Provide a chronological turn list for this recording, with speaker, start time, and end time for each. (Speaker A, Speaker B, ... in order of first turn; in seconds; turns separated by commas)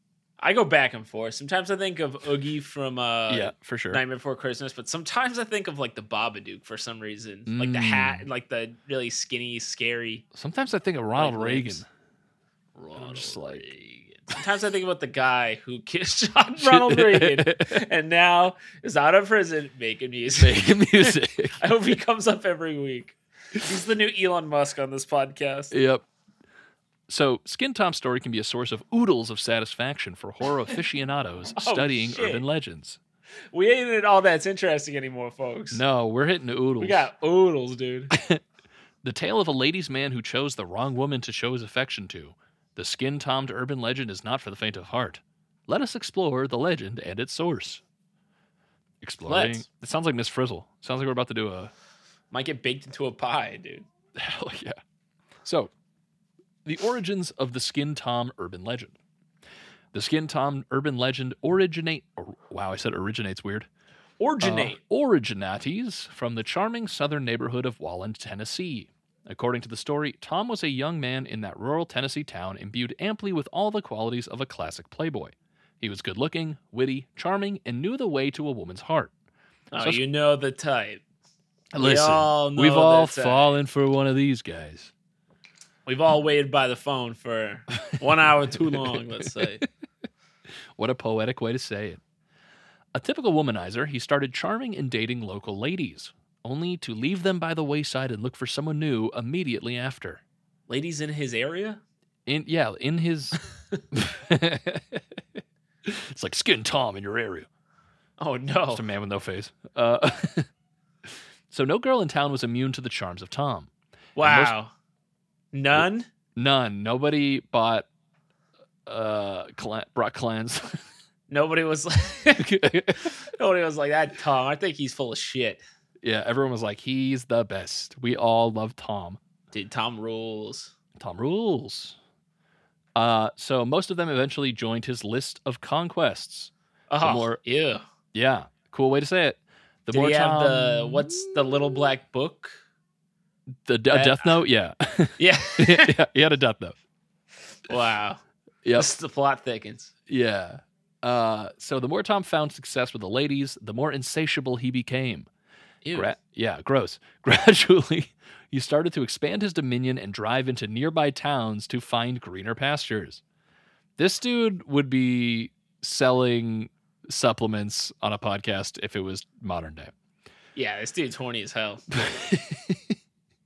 Speaker A: 0.4-10.2, Speaker B: 3.3-4.0, Speaker B: 7.5-8.2, Speaker B: 10.3-11.9, Speaker A: 11.1-11.8, Speaker A: 12.8-25.7, Speaker B: 12.9-13.7, Speaker B: 16.6-17.8, Speaker B: 20.4-21.6, Speaker B: 25.7-26.0, Speaker B: 27.1-33.0, Speaker A: 31.6-32.4, Speaker A: 33.5-35.8, Speaker B: 35.7-37.0, Speaker A: 36.8-38.1, Speaker B: 38.1-38.4, Speaker B: 39.0-47.8, Speaker B: 49.0-51.7, Speaker A: 49.2-49.6, Speaker A: 52.3-53.9, Speaker B: 54.1-54.8, Speaker B: 55.4-55.7, Speaker B: 56.6-59.0, Speaker B: 59.9-63.7, Speaker A: 64.2-64.8, Speaker B: 64.4-79.1, Speaker A: 79.7-81.0, Speaker B: 81.7-84.9, Speaker A: 81.8-83.5, Speaker A: 85.8-89.6, Speaker B: 88.6-89.6, Speaker B: 90.8-92.0, Speaker B: 92.9-100.2, Speaker A: 100.7-101.8, Speaker B: 102.2-103.4, Speaker B: 103.9-105.2, Speaker B: 105.8-107.5, Speaker A: 108.2-108.9, Speaker B: 108.7-110.5, Speaker B: 111.5-113.7, Speaker A: 114.2-114.7, Speaker B: 114.2-114.5, Speaker A: 115.5-116.1, Speaker B: 116.3-117.9, Speaker B: 118.8-120.8, Speaker A: 121.3-125.6, Speaker B: 122.4-123.1, Speaker B: 126.0-129.2, Speaker A: 129.5-130.7, Speaker B: 130.9-132.0, Speaker B: 132.9-137.4, Speaker A: 136.9-137.8, Speaker B: 138.1-141.5, Speaker A: 139.9-142.6, Speaker B: 143.6-146.8, Speaker A: 143.9-144.4, Speaker A: 145.2-145.9, Speaker A: 147.7-148.2, Speaker B: 148.6-148.9, Speaker A: 148.8-149.9, Speaker B: 150.1-155.3, Speaker A: 155.8-156.1, Speaker B: 155.9-163.2, Speaker B: 164.0-169.9, Speaker A: 170.6-171.8, Speaker B: 171.9-172.9